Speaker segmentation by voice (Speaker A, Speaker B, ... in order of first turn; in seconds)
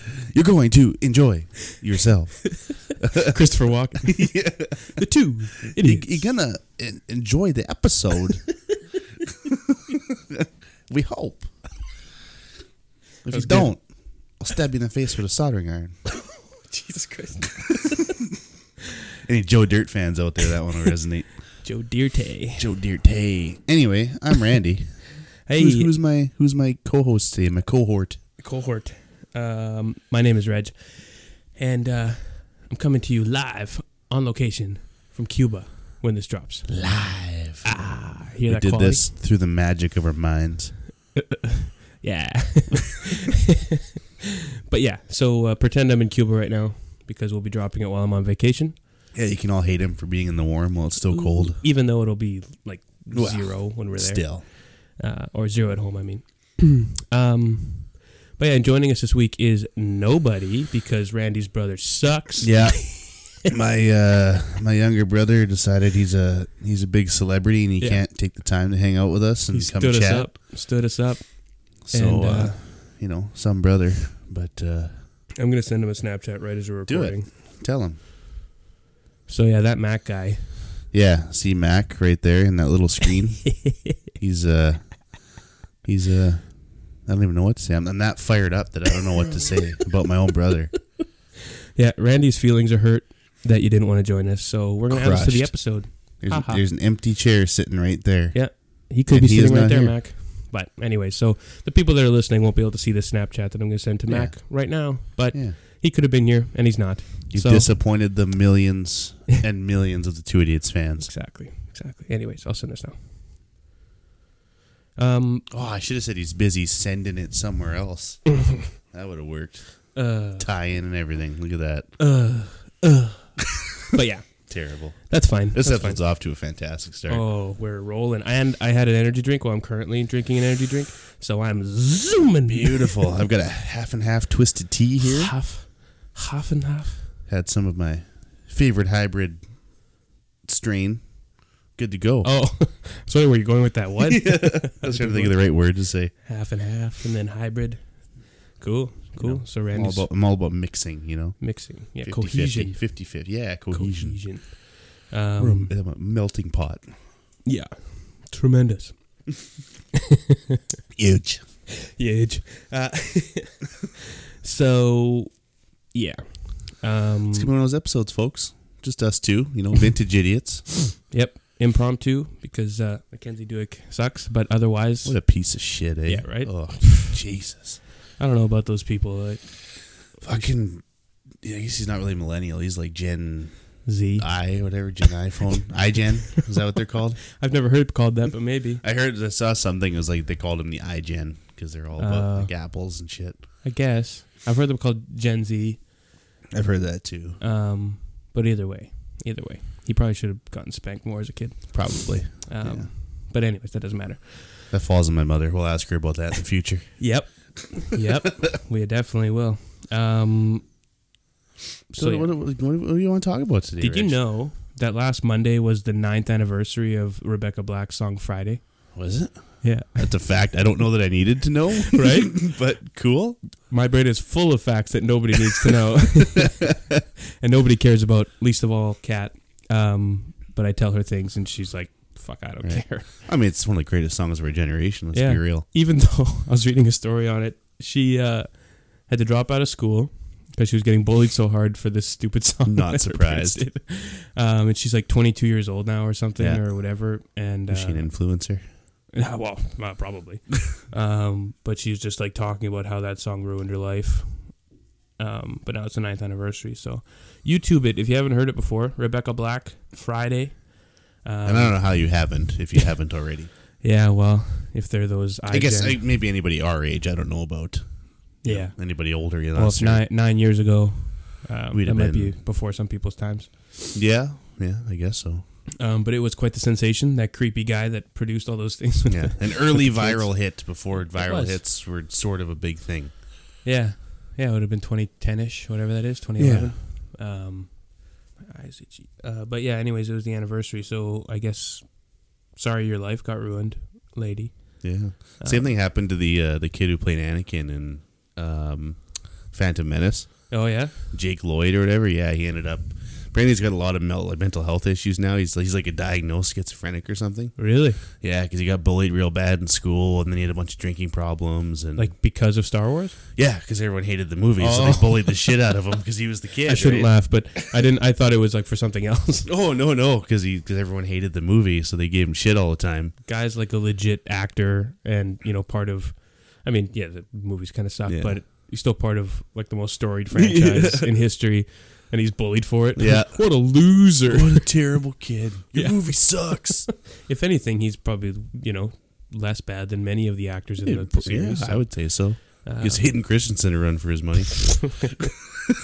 Speaker A: 0.3-3.3, 4.1-5.0, 5.6-8.6, 9.5-11.5, 13.2-15.9, 19.2-21.6, 22.6-28.2, 36.7-37.9, 38.5-40.8, 49.1-51.6, 53.1-54.5, 62.4-70.3, 71.8-75.0, 76.9-78.0, 80.9-90.9, 94.9-100.0, 104.1-105.6, 107.3-111.1, 115.5-122.0, 124.5-127.2, 132.5-135.3, 137.3-141.2, 141.7-142.3, 144.1-146.1, 149.2-154.6, 155.4-156.9, 161.0-161.4, 167.3-170.8, 175.1-177.8, 180.2-187.2, 188.8-193.4, 196.5-197.4, 201.7-202.9, 204.7-207.3, 211.9-214.2, 218.9-223.4, 232.6-235.7, 242.7-243.7, 246.4-246.7, 247.7-248.6, 261.4-263.5, 265.5-270.1, 271.7-272.4, 273.9-275.4, 279.1-283.2, 286.4-286.8, 294.8-312.1, 313.4-317.4, 319.5-323.1, 328.1-328.4, 330.3-331.1, 333.0-336.9, 340.8-345.2
Speaker B: 2.5-6.3, 13.3-13.8, 16.5-18.1, 21.6-22.7, 25.5-25.9, 28.4-36.9, 37.6-39.1, 41.2-43.6, 44.7-48.8, 51.1-63.3, 67.8-68.0, 69.5-72.6, 75.4-77.3, 79.3-80.5, 91.8-96.6, 98.3-107.7, 111.0-113.0, 115.0-115.5, 120.0-120.5, 122.0-126.0, 127.1-133.1, 135.0-137.1, 142.2-150.1, 151.4-155.7, 157.4-159.3, 161.8-167.5, 171.0-177.2, 178.2-180.5, 183.8-184.8, 187.3-188.8, 192.0-192.5, 193.6-195.9, 197.4-204.6, 207.0-210.7, 212.0-212.3, 213.8-218.9, 219.6-220.3, 221.9-222.6, 223.7-226.8, 227.4-233.1, 235.1-248.1, 249.1-262.4, 263.8-266.0, 268.4-273.8, 275.8-281.6, 283.6-295.7, 300.5-300.9, 307.6-308.0, 312.0-313.2, 314.6-315.4, 316.6-319.5, 323.2-334.8, 335.7-343.2